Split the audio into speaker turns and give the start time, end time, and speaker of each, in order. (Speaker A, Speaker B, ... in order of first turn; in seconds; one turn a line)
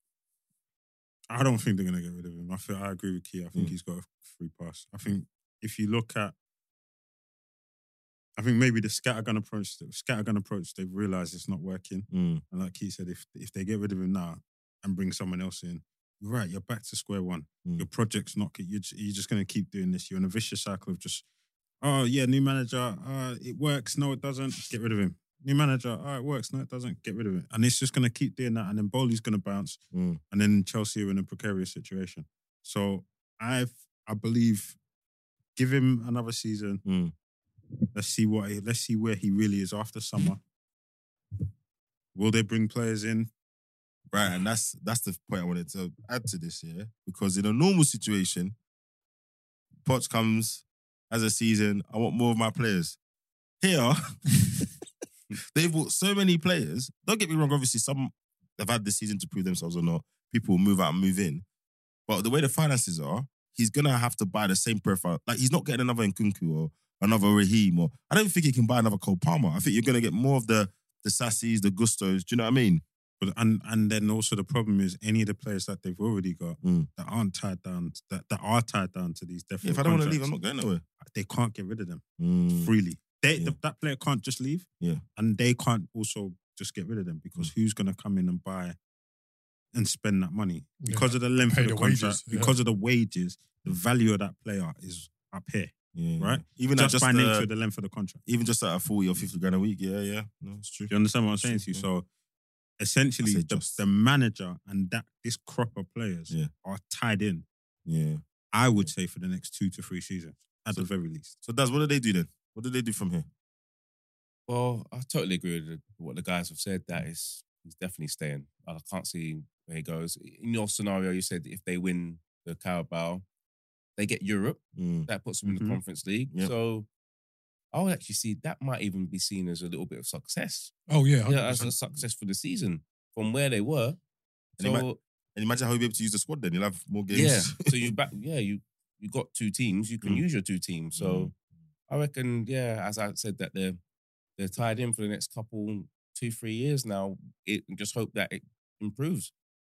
Speaker A: 1.3-6.3
Speaker A: 8.4-21.2
Speaker B: 12.1-12.4
Speaker A: 21.8-34.8
Speaker B: 29.9-30.2
Speaker A: 35.5-36.8
Speaker B: 36.8-37.1
Speaker A: 37.9-40.4
Speaker A: 42.1-43.3
Speaker B: 44.1-48.5
Speaker B: 49.8-53.0
Speaker B: 53.6-54.7
Speaker B: 55.3-61.4
Speaker B: 62.1-72.8
Speaker A: 73.2-80.3
Speaker B: 76.6-76.9
Speaker B: 79.6-80.8
Speaker A: 81.0-82.0
Speaker B: 82.2-82.7
Speaker A: 82.6-88.8
Speaker A: 89.7-98.2
Speaker C: 90.8-92.5
Speaker B: 95.9-97.5
Speaker B: 98.3-101.8
Speaker A: 100.9-102.0
Speaker A: 102.8-107.5
Speaker B: 103.2-103.8
Speaker B: 107.8-108.2
Speaker A: 108.5-111.3
Speaker B: 111.4-113.3
Speaker D: 114.5-123.2
Speaker D: 124.0-126.9
Speaker B: 124.8-125.1
Speaker A: 125.5-125.8
Speaker D: 127.7-130.7
Speaker C: 130.9-131.7
Speaker D: 131.2-134.0
Speaker B: 134.6-137.9
Speaker D: 134.6-135.0
Speaker D: 137.1-141.3
Speaker B: 141.0-141.3
Speaker D: 141.9-143.8
Speaker D: 144.4-149.3